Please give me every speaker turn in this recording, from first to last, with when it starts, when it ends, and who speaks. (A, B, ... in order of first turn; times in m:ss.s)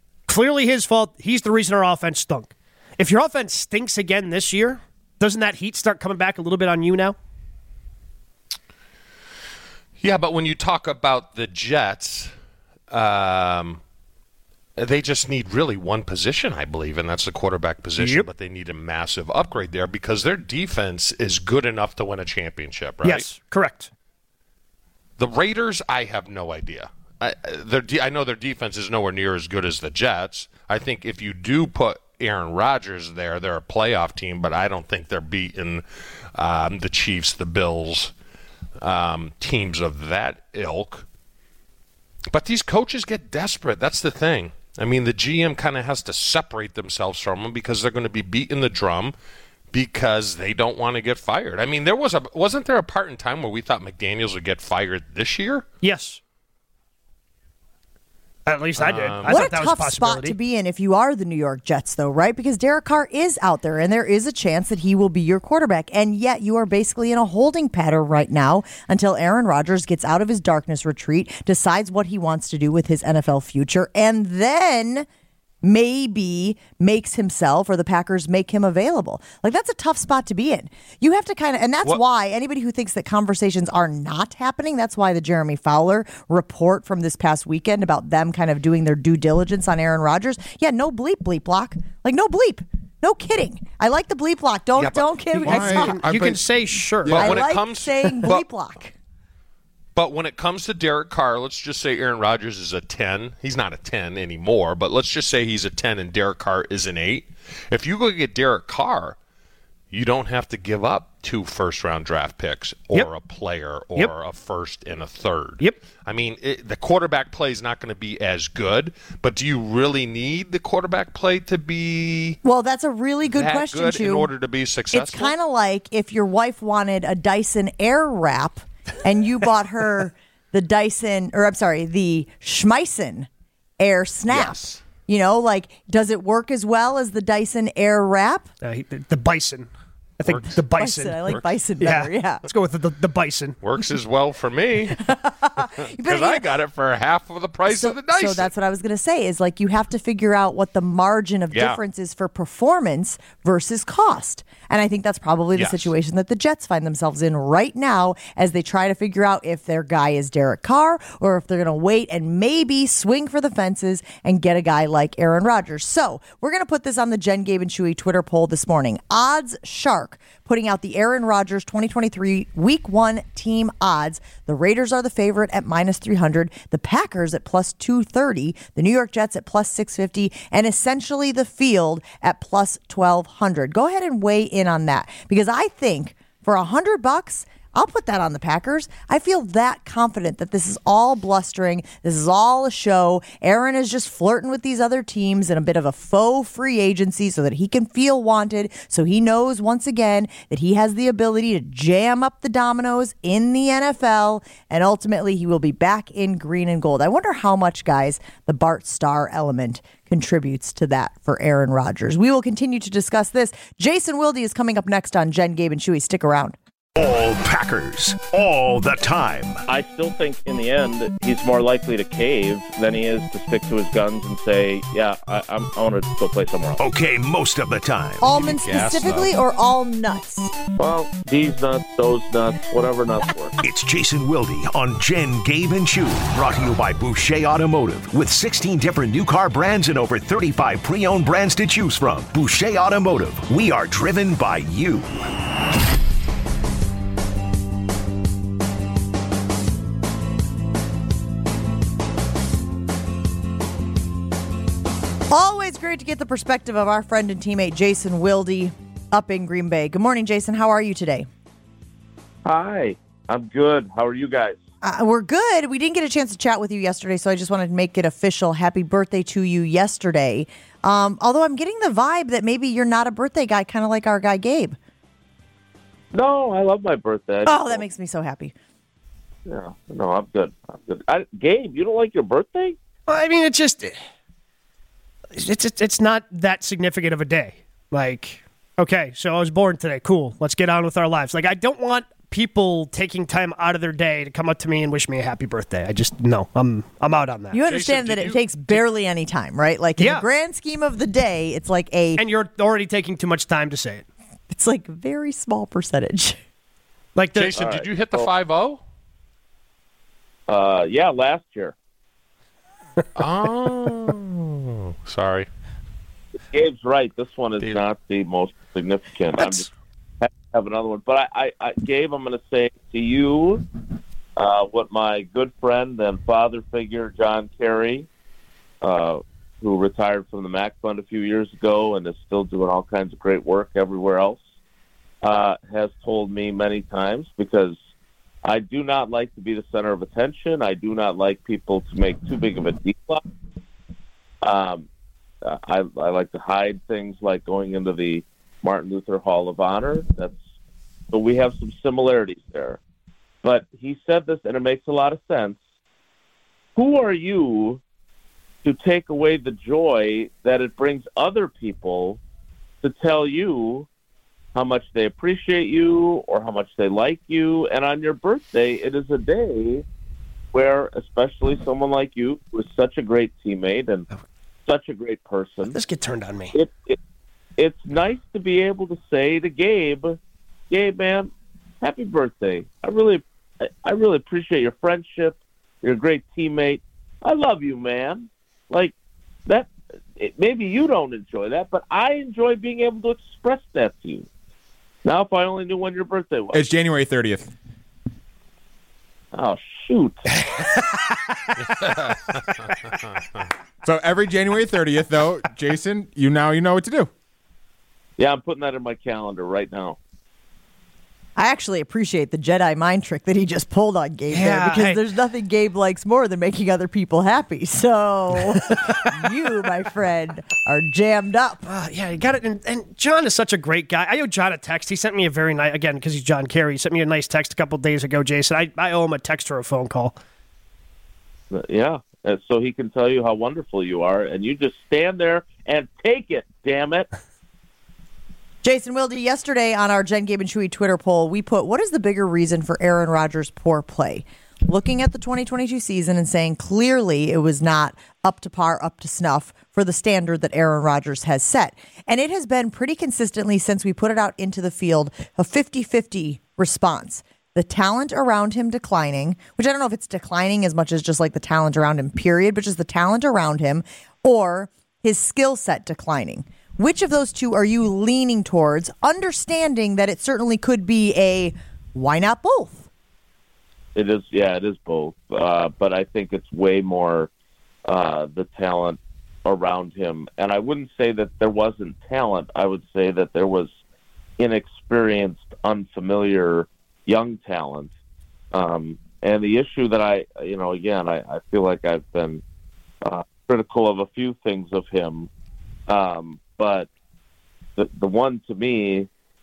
0:00.3-0:07.2 A
0:10.0-0:12.3 B
0:12.9-0:13.8 B
0:14.8-0:23.3 B
0:18.0-0:18.3 A
0:23.0-0:23.9 A
0:25.2-0:38.1 B
0:38.8-0:41.0 B
0:42.3-0:49.1 B
0:49.7-0:55.6 B
0:55.8-0:56.2 A
0:58.4-1:00.4 A
0:58.8-0:59.4 B
0:59.2-1:15.1 C
1:15.6-1:36.0 C
1:34.8-1:35.0 B
1:35.4-1:37.4 A
1:35.4-1:36.4 D
1:35.8-1:36.4 B
1:37.0-1:38.4 B
1:37.1-1:38.9 C
1:40.0-1:49.2 B
1:49.9-2:02.4 B
2:02.4-2:04.3 C
2:03.3-2:05.3 B
2:04.9-2:13.3 C
2:13.8-2:18.5 C
2:14.3-2:14.8 B
2:18.6-2:21.2 A
2:20.2-2:20.6 B
2:20.8-2:22.4 C
2:21.8-2:23.6 A
2:23.6-2:28.5 B
2:25.0-2:26.4 C
2:27.7-3:36.6 C
2:31.5-2:31.8 B
2:35.6-2:35.9 B
3:37.0-3:39.6 E
3:39.7-3:46.8 F
3:46.8-3:48.2 E
3:48.2-3:50.4 C
3:48.3-3:49.3 B
3:50.8-3:53.5 F
3:53.6-4:05.1 E
4:15.3-4:21.3 C
4:22.4-4:24.6 F
4:24.8-4:34.8 C
4:36.1-4:37.8 F
4:37.4-4:38.5 C
4:39.4-4:42.8 F
4:43.1-4:43.9 A
4:45.3-4:57.6 A
4:57.5-5:02.2 C
4:57.7-4:58.8 B
5:00.0-5:00.2 A
5:02.2-5:04.0 A
5:04.5-5:06.4 C
5:07.1-5:07.6 A
5:07.3-5:08.8 B
5:07.5-5:08.3 F
5:10.5-5:11.7 F
5:13.2-5:15.5 B
5:16.5-5:19.7 F
5:20.2-5:23.6 F
5:24.4-5:28.1 F
5:28.8-5:34.4 F
5:35.2-5:37.8 F
5:38.4-5:43.2 F
5:44.4-5:44.9 F
5:45.4-5:50.4 F
5:51.1-5:52.8 F
5:53.4-5:55.6 F
5:56.8-5:57.8 F
5:58.6-6:02.2 F
6:02.8-6:03.9 F
6:04.5-6:09.8 F
6:10.5-6:14.1 F
6:14.6-6:15.8 F
6:15.6-6:16.6 A
6:16.5-6:17.0 F
6:17.6-6:20.2 F
6:20.7-6:28.9 F
6:29.5-6:34.3 F
6:35.0-6:36.6 F
6:36.5-6:37.5 D
6:39.3-6:40.2 F
6:40.5-6:41.3 A
6:41.6-6:43.5 B
6:43.8-6:47.1 D
6:48.2-6:50.0 F
6:51.4-7:01.6 C
6:54.3-6:55.0 A
7:01.6-7:10.2 A
7:11.5-7:17.1 F
7:18.6-7:52.9 C
7:53.9-7:57.3 F
7:57.9-8:03.7 F
8:04.4-8:07.9 F
8:08.5-8:12.4 F
8:13.0-8:15.3 F
8:15.9-8:16.9 F
8:17.8-8:19.1 F